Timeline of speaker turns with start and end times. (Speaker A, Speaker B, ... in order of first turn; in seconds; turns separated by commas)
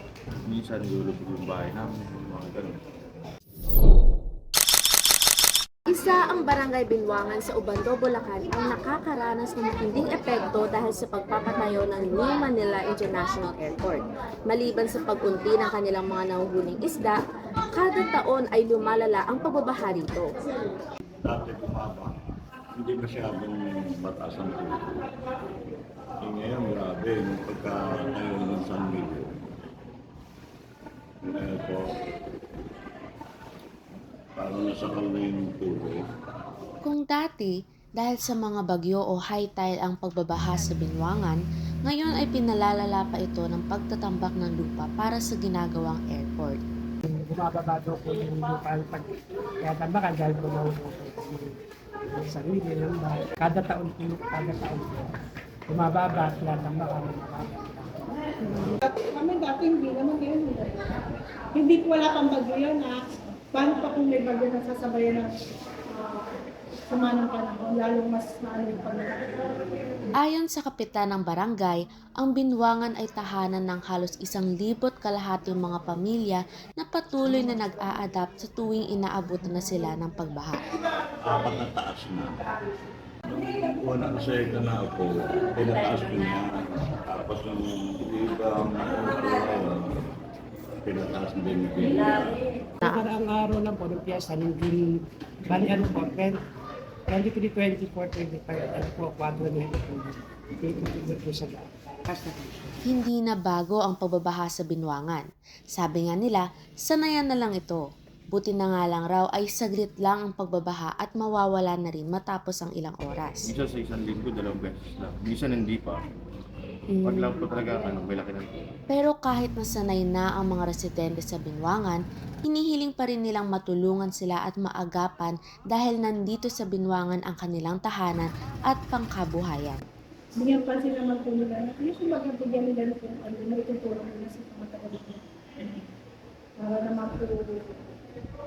Speaker A: 0.5-2.8, Speaker B: 5.9-14.0, Speaker B: 14.5-17.1, Speaker B: 17.8-20.2, Speaker C: 21.2-22.2, Speaker C: 22.8-25.0, Speaker C: 26.2-29.3, Speaker C: 31.2-31.9, Speaker C: 34.4-36.0, Speaker B: 36.8-46.6, Speaker D: 47.1-49.1, Speaker D: 49.6-51.6, Speaker D: 52.2-55.1, Speaker D: 55.7-58.1, Speaker E: 58.9-61.0, Speaker E: 61.5-66.4, Speaker E: 66.9-69.5, Speaker B: 70.2-80.7, Speaker C: 81.2-82.4, Speaker C: 83.3-90.0, Speaker C: 90.8-92.3, Speaker D: 92.9-94.9, Speaker D: 95.5-96.4, Speaker D: 97.1-102.8, Speaker B: 102.9-107.8, Speaker B: 108.3-113.5, Speaker A: 113.5-116.0, Speaker B: 116.9-117.4, Speaker A: 117.0-118.7, Speaker B: 118.9-129.8, Speaker E: 130.4-135.9, Speaker E: 136.6-137.8